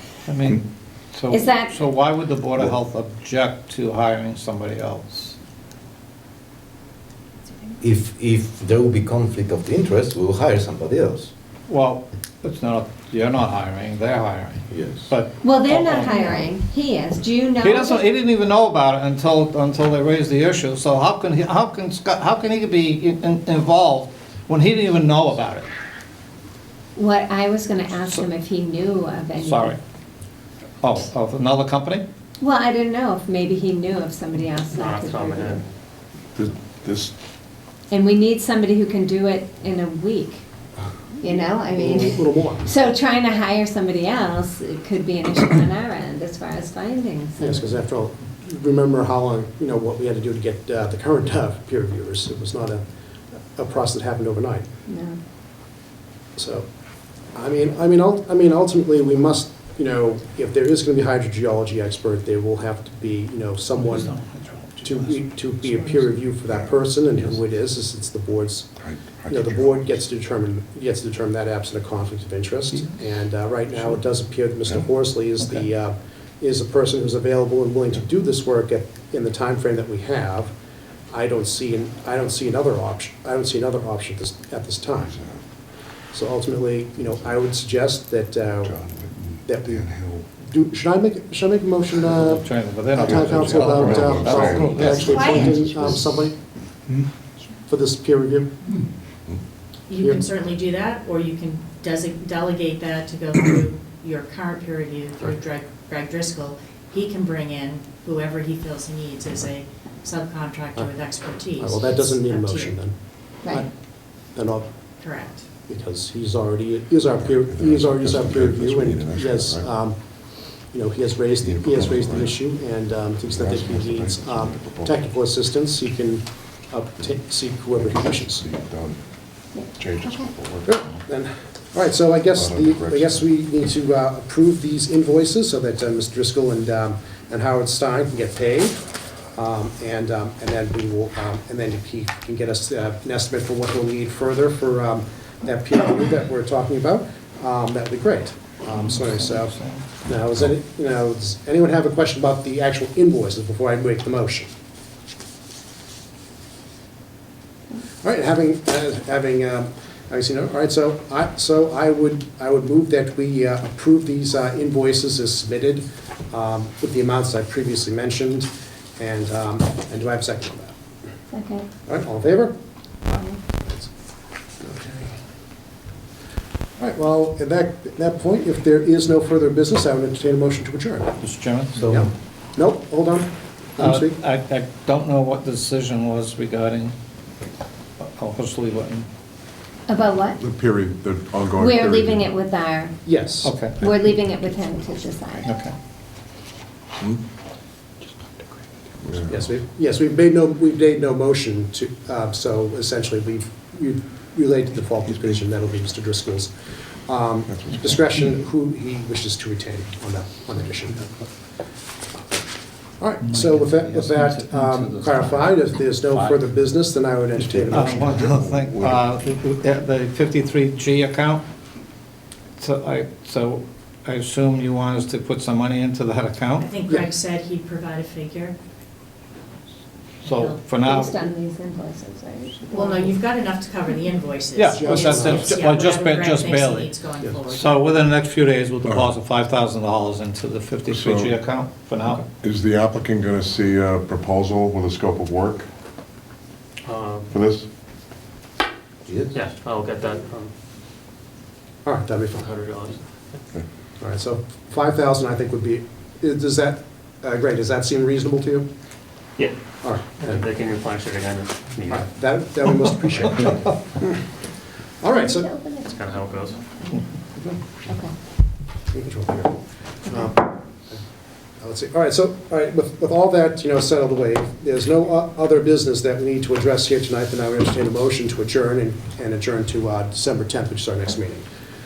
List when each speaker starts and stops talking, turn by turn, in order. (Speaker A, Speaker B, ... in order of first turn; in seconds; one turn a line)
Speaker A: 0.3-5.3
Speaker B: 1.3-1.8
Speaker C: 7.8-11.3
Speaker A: 11.7-16.5
Speaker C: 14.7-15.0
Speaker B: 15.4-18.0
Speaker A: 17.6-25.7
Speaker B: 27.0-29.8
Speaker A: 29.4-29.8
Speaker A: 30.8-32.0
Speaker B: 32.4-35.6
Speaker D: 34.8-35.6
Speaker E: 36.4-37.1
Speaker B: 37.9-40.4
Speaker B: 41.2-47.8
Speaker F: 41.7-42.7
Speaker F: 47.4-52.8
Speaker F: 53.5-54.7
Speaker B: 54.9-55.2
Speaker F: 56.4-56.6
Speaker F: 57.4-64.1
Speaker A: 63.8-66.1
Speaker F: 64.8-68.7
Speaker E: 66.4-67.4
Speaker E: 68.8-70.1
Speaker F: 69.3-80.5
Speaker F: 81.1-85.1
Speaker E: 85.0-85.4
Speaker F: 86.1-88.8
Speaker E: 88.6-90.3
Speaker F: 89.5-89.9
Speaker F: 90.4-96.4
Speaker A: 92.1-95.2
Speaker E: 93.0-96.2
Speaker B: 95.0-96.0
Speaker F: 97.7-98.5
Speaker G: 99.9-112.8
Speaker F: 100.0-100.2
Speaker F: 111.6-112.9
Speaker F: 114.3-114.7
Speaker G: 115.0-115.5
Speaker F: 115.7-120.0
Speaker E: 117.2-119.7
Speaker F: 120.7-128.4
Speaker E: 121.4-122.4
Speaker E: 123.2-125.0
Speaker E: 127.8-129.0
Speaker B: 129.6-130.3
Speaker E: 129.8-130.9
Speaker F: 130.7-138.8
Speaker E: 132.3-133.3
Speaker F: 139.3-154.5
Speaker A: 148.7-149.8
Speaker F: 158.0-170.7
Speaker B: 171.3-171.7
Speaker F: 171.9-172.5
Speaker B: 173.1-173.4
Speaker F: 173.6-173.9
Speaker F: 174.6-175.2
Speaker F: 176.8-181.1
Speaker A: 181.2-182.0
Speaker F: 181.9-184.2
Speaker A: 183.8-186.9
Speaker A: 188.0-189.1
Speaker B: 189.9-190.4
Speaker E: 190.4-192.3
Speaker B: 191.6-193.0
Speaker F: 193.1-193.6
Speaker A: 193.4-193.8
Speaker B: 193.8-195.5
Speaker A: 195.4-195.8
Speaker E: 199.0-199.5
Speaker F: 199.3-206.5
Speaker F: 207.1-211.2
Speaker E: 207.5-208.1
Speaker F: 213.0-218.3
Speaker A: 213.2-215.6
Speaker A: 216.1-216.4
Speaker E: 217.4-219.0
Speaker A: 217.7-221.4
Speaker A: 222.6-226.7
Speaker G: 226.6-228.6
Speaker A: 230.2-231.2
Speaker G: 230.2-230.6
Speaker B: 230.8-233.2
Speaker G: 232.7-237.8
Speaker A: 234.6-236.9
Speaker F: 234.7-235.6
Speaker A: 237.5-242.2
Speaker E: 238.8-239.1
Speaker E: 240.9-241.3
Speaker E: 242.4-245.7
Speaker D: 246.8-247.3
Speaker E: 247.3-247.7
Speaker D: 249.3-250.5
Speaker F: 251.8-252.5
Speaker D: 252.4-253.1
Speaker F: 254.0-258.7
Speaker F: 259.8-260.4
Speaker D: 260.2-262.1
Speaker F: 261.9-264.2
Speaker F: 265.0-265.5
Speaker B: 265.1-266.9
Speaker D: 265.9-266.6
Speaker B: 267.9-268.1
Speaker F: 268.9-271.0
Speaker F: 271.6-281.5